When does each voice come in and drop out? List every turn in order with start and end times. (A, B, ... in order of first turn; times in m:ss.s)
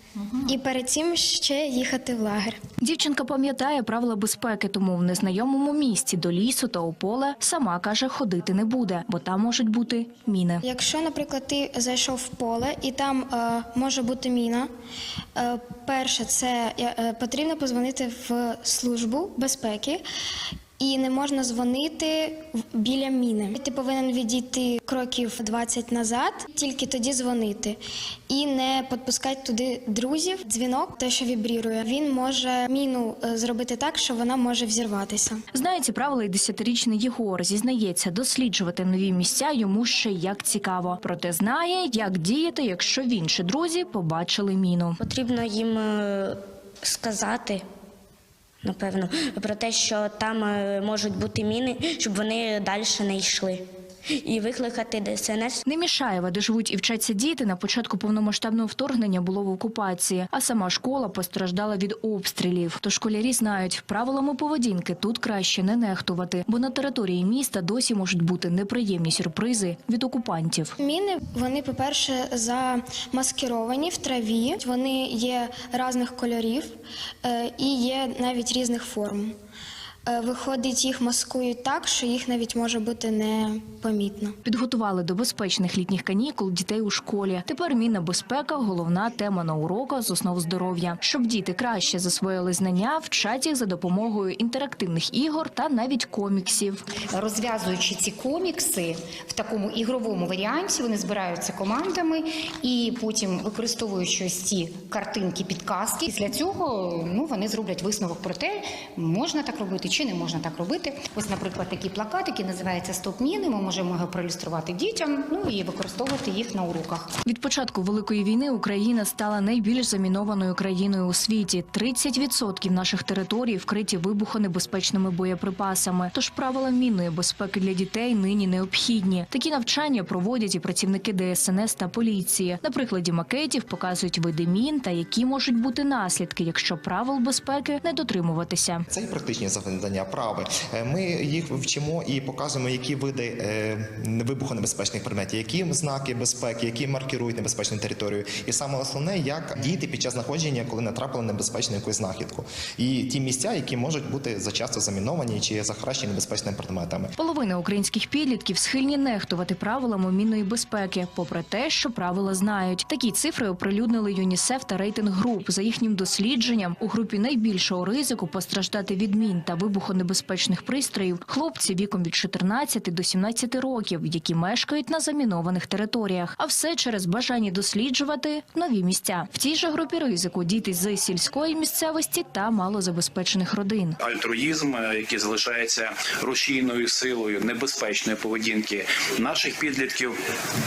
0:00.5-0:02.6 A
0:02.8-0:10.6 B
0:10.6-0:14.7 A
0:15.4-0:20.0 A
0:20.8-0:35.4 A
0:35.5-0:45.0 B
0:45.0-0:47.6 C
0:48.6-0:53.6 C
0:54.2-0:55.6 C
0:55.7-1:10.7 B
1:10.8-1:16.7 A
1:17.2-1:19.3 A
1:20.1-1:24.4 A
1:24.4-1:36.8 B
1:37.1-1:57.1 D
1:57.2-2:18.8 B
2:18.9-2:37.1 E
2:37.2-3:04.0 B
3:04.0-3:10.2 F